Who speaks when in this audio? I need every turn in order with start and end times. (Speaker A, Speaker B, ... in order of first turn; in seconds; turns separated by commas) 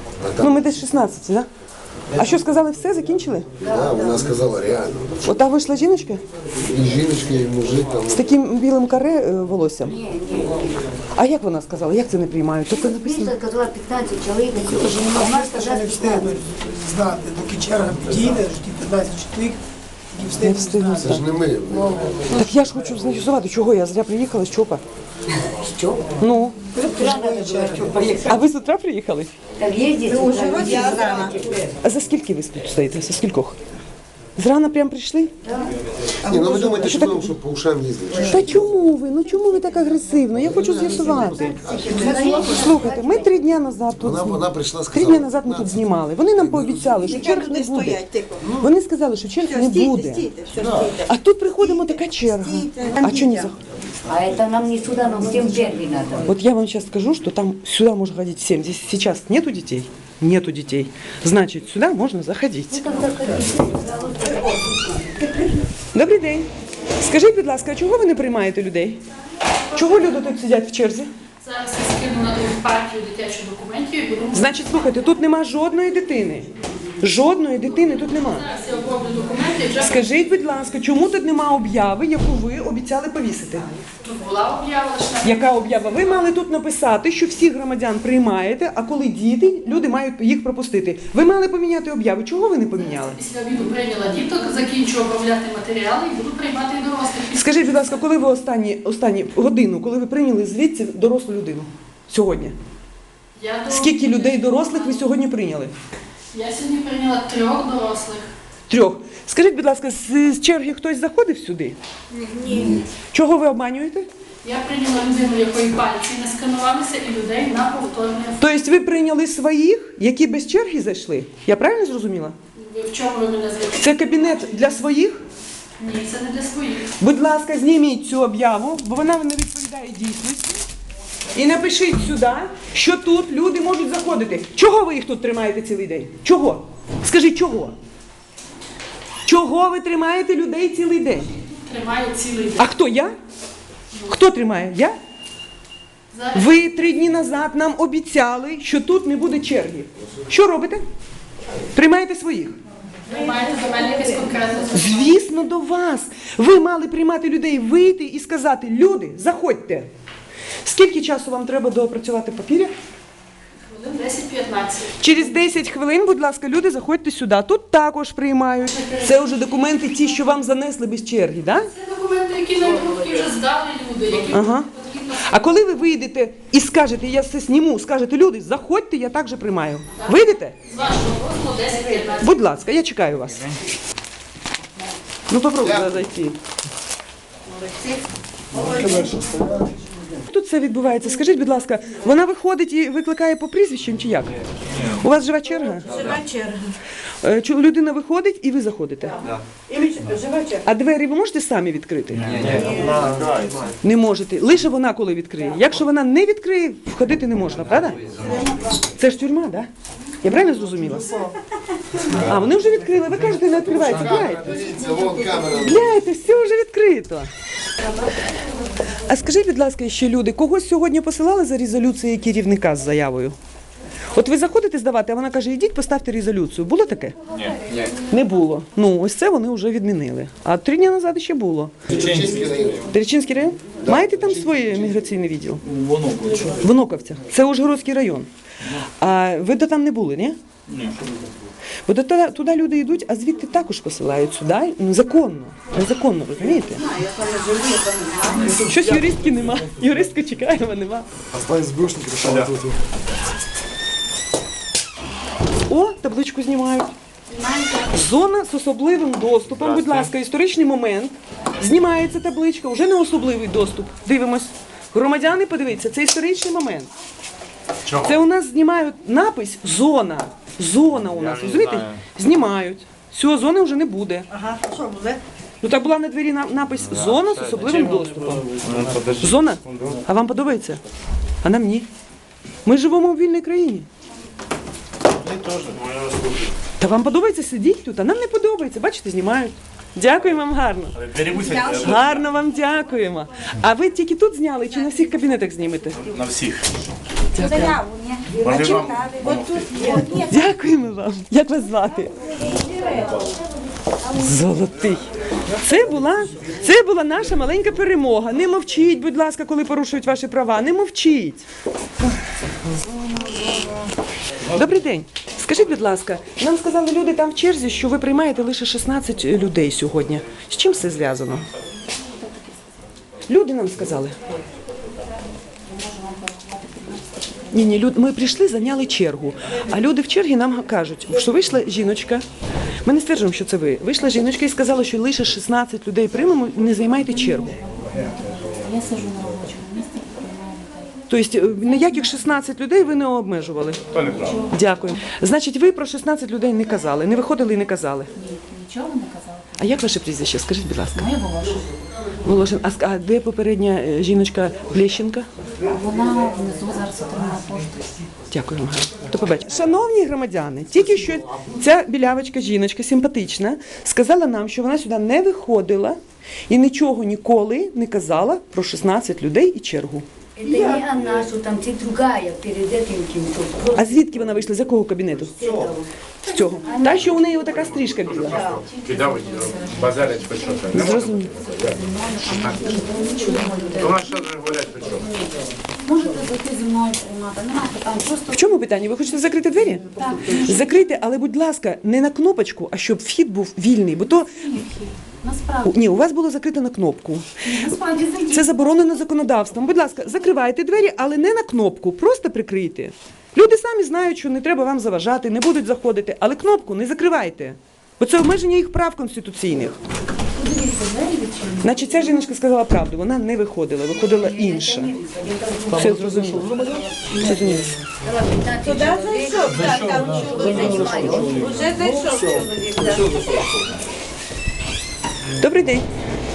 Speaker A: 0.2-0.6, Speaker B: 0.4-1.5, Speaker B: 2.1-3.5, Speaker A: 3.6-5.2, Speaker C: 3.6-4.2, Speaker B: 5.2-6.2, Speaker A: 6.6-8.3, Speaker B: 8.1-10.0, Speaker C: 9.9-10.8, Speaker B: 11.1-13.3, Speaker C: 12.7-16.3, Speaker D: 14.7-19.6, Speaker D: 20.1-21.2, Speaker B: 20.4-21.3, Speaker A: 21.0-22.5, Speaker B: 22.3-24.8, Speaker C: 25.4-26.1, Speaker B: 26.2-26.6, Speaker D: 26.7-28.2, Speaker C: 26.7-28.4, Speaker B: 28.2-29.3, Speaker C: 29.6-31.6, Speaker E: 30.1-31.4, Speaker B: 31.8-33.6, Speaker B: 34.4-35.3, Speaker C: 35.5-35.7, Speaker A: 36.2-38.5, Speaker B: 36.5-37.3, Speaker B: 38.2-41.5, Speaker A: 40.3-42.4, Speaker C: 41.6-43.4, Speaker B: 42.3-48.0, Speaker A: 44.0-47.2, Speaker E: 47.0-48.4, Speaker A: 48.4-48.7, Speaker B: 48.6-50.3, Speaker E: 49.4-51.1, Speaker A: 50.5-51.0, Speaker B: 50.9-53.5, Speaker E: 52.4-53.5, Speaker C: 54.1-56.3, Speaker B: 56.3-62.9, Speaker C: 62.7-65.4, Speaker B: 65.9-66.5, Speaker B: 67.0-69.0, Speaker B: 69.7-71.1, Speaker F: 71.4-74.6, Speaker B: 74.3-76.5, Speaker B: 77.0-78.5, Speaker F: 78.3-80.0, Speaker B: 79.8-83.7, Speaker F: 84.0-86.1, Speaker B: 85.2-93.2, Speaker F: 92.9-97.9, Speaker B: 97.3-102.5, Speaker F: 103.3-105.1, Speaker B: 103.7-105.7, Speaker F: 106.3-108.3, Speaker B: 108.7-111.8, Speaker E: 112.2-112.6, Speaker A: 112.4-112.8, Speaker B: 113.1-114.1, Speaker F: 114.4-118.4, Speaker B: 118.4-122.3, Speaker F: 122.5-124.6, Speaker B: 123.8-125.2, Speaker F: 125.8-126.9, Speaker B: 127.0-130.6, Speaker B: 131.3-137.7, Speaker B: 139.2-141.3, Speaker F: 141.4-142.7, Speaker B: 142.6-143.1, Speaker B: 144.1-144.9, Speaker F: 146.1-146.5, Speaker B: 146.3-150.8, Speaker B: 151.7-152.6, Speaker F: 153.1-155.2, Speaker B: 154.7-159.9, Speaker B: 160.6-162.7, Speaker F: 163.7-165.1, Speaker B: 165.0-171.7, Speaker F: 168.7-169.3, Speaker F: 171.7-175.4, Speaker B: 174.3-180.6, Speaker F: 179.9-182.4, Speaker B: 182.1-183.5, Speaker B: 185.3-186.4, Speaker A: 185.6-185.9, Speaker E: 188.6-189.1, Speaker B: 190.3-194.3, Speaker B: 194.8-196.2, Speaker E: 195.9-196.7, Speaker B: 197.2-199.2, Speaker E: 199.7-200.6, Speaker B: 200.6-202.5, Speaker G: 202.3-203.5, Speaker E: 202.6-202.9, Speaker B: 203.8-208.0, Speaker B: 208.8-209.7, Speaker B: 210.2-211.1, Speaker B: 212.1-214.6, Speaker A: 213.6-215.9, Speaker B: 215.5-217.3, Speaker B: 219.0-223.3, Speaker B: 224.1-227.1, Speaker B: 227.9-231.7, Speaker A: 231.9-232.9, Speaker B: 232.9-235.6, Speaker A: 233.8-234.9, Speaker G: 235.7-236.5, Speaker B: 236.6-238.3, Speaker B: 239.0-240.4, Speaker B: 241.8-246.8, Speaker E: 246.9-247.9, Speaker C: 247.1-247.4, Speaker H: 247.9-248.3, Speaker B: 248.4-251.1, Speaker A: 251.3-252.8, Speaker G: 252.2-252.5, Speaker B: 255.7-256.9, Speaker H: 257.3-257.9, Speaker B: 257.7-266.9, Speaker G: 259.6-260.1, Speaker G: 267.9-268.1, Speaker B: 268.0-274.3, Speaker G: 271.3-271.9, Speaker E: 274.4-275.2, Speaker B: 275.6-278.5, Speaker G: 276.9-280.0, Speaker B: 279.2-280.8, Speaker B: 281.4-281.9, Speaker B: 282.6-283.9, Speaker G: 285.2-286.5, Speaker B: 286.8-291.0, Speaker G: 291.0-292.2, Speaker B: 291.7-296.0, Speaker G: 296.0-296.7, Speaker B: 297.3-297.8, Speaker H: 297.4-298.9, Speaker G: 298.3-300.2, Speaker E: 298.9-300.0, Speaker H: 299.6-300.4, Speaker B: 300.1-302.1, Speaker C: 302.8-303.0, Speaker B: 304.1-311.4, Speaker B: 314.5-321.5, Speaker B: 323.3-324.2, Speaker H: 325.7-327.4, Speaker B: 327.5-332.2, Speaker B: 332.8-337.6, Speaker H: 337.4-340.9, Speaker B: 341.1-343.8, Speaker G: 343.9-344.4, Speaker B: 344.5-348.1, Speaker H: 348.1-349.7, Speaker B: 349.6-351.1, Speaker H: 350.9-351.7, Speaker B: 352.2-355.3, Speaker H: 355.6-357.9, Speaker B: 358.3-366.0, Speaker B: 366.5-370.1, Speaker C: 370.4-374.0, Speaker B: 373.8-375.4, Speaker C: 375.4-375.9, Speaker B: 376.2-378.5, Speaker C: 376.7-377.0, Speaker G: 377.0-382.8, Speaker C: 378.2-378.6, Speaker H: 379.1-379.7, Speaker B: 380.7-381.4, Speaker H: 381.4-384.1, Speaker C: 383.1-383.5, Speaker G: 383.8-385.1, Speaker H: 385.8-388.5, Speaker B: 388.3-394.4, Speaker H: 389.9-390.6, Speaker H: 394.4-395.7, Speaker B: 395.6-397.3, Speaker H: 397.4-398.5, Speaker B: 398.3-409.8, Speaker H: 410.4-411.6, Speaker B: 411.6-414.9, Speaker C: 414.4-415.9, Speaker B: 415.7-416.6, Speaker G: 415.9-416.8, Speaker B: 417.2-417.7, Speaker C: 418.0-423.1, Speaker E: 418.6-420.2, Speaker G: 419.5-421.7, Speaker H: 420.1-420.6, Speaker E: 421.4-423.2, Speaker H: 421.7-422.2, Speaker B: 425.4-425.9